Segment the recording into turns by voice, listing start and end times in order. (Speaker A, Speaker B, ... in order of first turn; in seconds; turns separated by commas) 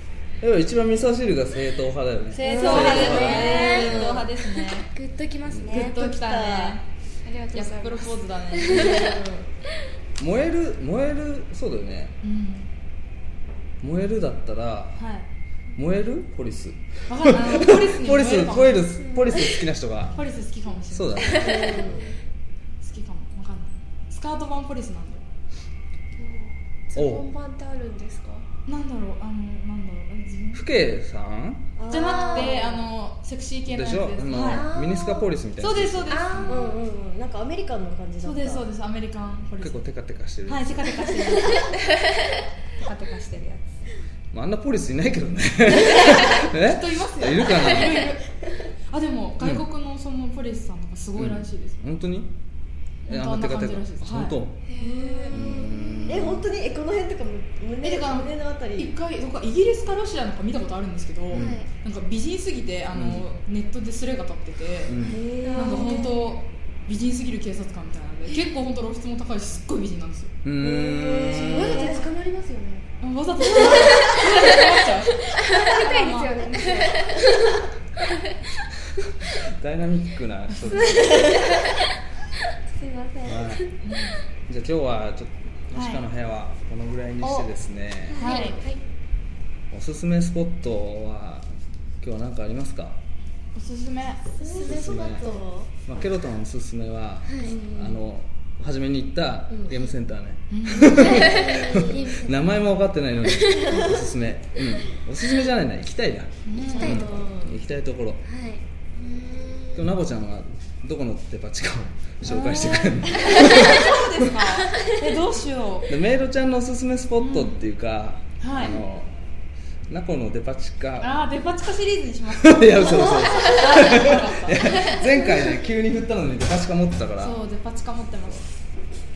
Speaker A: 0.4-4.2, Speaker B: 2.3-4.9, Speaker C: 2.4-4.3, Speaker D: 3.1-4.0, Speaker D: 4.7-6.0, Speaker B: 5.7-6.8, Speaker C: 5.8-6.8, Speaker E: 7.2-8.2, Speaker B: 7.5-9.2, Speaker C: 8.7-9.5, Speaker A: 8.7-9.0, Speaker A: 10.2-12.2, Speaker B: 12.2-12.7, Speaker A: 13.8-15.0, Speaker B: 15.0-15.3, Speaker A: 15.8-20.2, Speaker B: 17.1-18.9, Speaker B: 20.1-21.6, Speaker A: 20.9-21.8, Speaker C: 21.3-22.1, Speaker E: 21.4-22.0, Speaker B: 22.8-25.2, Speaker E: 26.2-28.4, Speaker A: 26.9-27.3, Speaker B: 28.7-30.7, Speaker A: 30.5-31.7, Speaker C: 31.8-32.8, Speaker B: 31.9-34.7, Speaker E: 31.9-32.6, Speaker A: 33.7-36.5, Speaker E: 34.3-35.3, Speaker B: 35.6-36.5, Speaker E: 36.1-36.8, Speaker C: 36.5-38.7, Speaker B: 38.2-39.8, Speaker A: 39.6-40.9, Speaker B: 40.5-41.7, Speaker B: 42.8-43.7, Speaker A: 44.3-48.1, Speaker B: 46.5-48.2, Speaker B: 48.9-51.8, Speaker A: 51.2-52.3, Speaker B: 53.1-54.4, Speaker A: 53.1-54.6, Speaker E: 54.7-55.7, Speaker C: 54.8-58.9, Speaker A: 55.3-56.5, Speaker B: 57.8-65.0, Speaker A: 61.3-61.6, Speaker E: 61.3-61.6, Speaker A: 62.9-63.2, Speaker A: 64.9-65.2, Speaker C: 65.0-66.1, Speaker E: 65.4-66.2, Speaker B: 65.5-70.3, Speaker A: 70.4-71.9, Speaker C: 70.6-72.1, Speaker E: 70.9-72.9, Speaker B: 73.0-77.0, Speaker E: 75.5-77.2, Speaker D: 75.8-76.9, Speaker A: 79.2-81.5, Speaker C: 81.1-81.5, Speaker E: 82.8-83.3, Speaker D: 83.2-83.5, Speaker A: 83.3-83.6, Speaker B: 83.8-84.2, Speaker A: 84.5-88.2, Speaker B: 85.7-86.0, Speaker B: 87.2-87.5, Speaker D: 88.1-88.6, Speaker E: 88.1-88.8, Speaker B: 88.1-88.6, Speaker A: 89.7-91.5, Speaker A: 92.0-93.0, Speaker B: 93.5-94.3, Speaker E: 94.4-95.5, Speaker C: 94.4-95.7, Speaker A: 94.6-95.3, Speaker A: 95.8-108.2, Speaker C: 97.4-98.0, Speaker C: 99.5-99.8, Speaker B: 100.5-101.1, Speaker D: 101.0-102.4, Speaker C: 101.2-102.0, Speaker C: 103.5-104.0, Speaker B: 106.5-107.0, Speaker C: 106.7-107.6, Speaker D: 106.8-107.1, Speaker D: 108.2-109.9, Speaker A: 109.7-114.3, Speaker D: 112.3-113.6, Speaker B: 113.1-115.9, Speaker A: 115.9-119.1, Speaker B: 117.2-117.6, Speaker B: 118.4-118.8, Speaker A: 119.9-121.2, Speaker B: 121.0-125.0, Speaker A: 122.3-127.4, Speaker C: 123.1-123.3, Speaker B: 127.2-128.5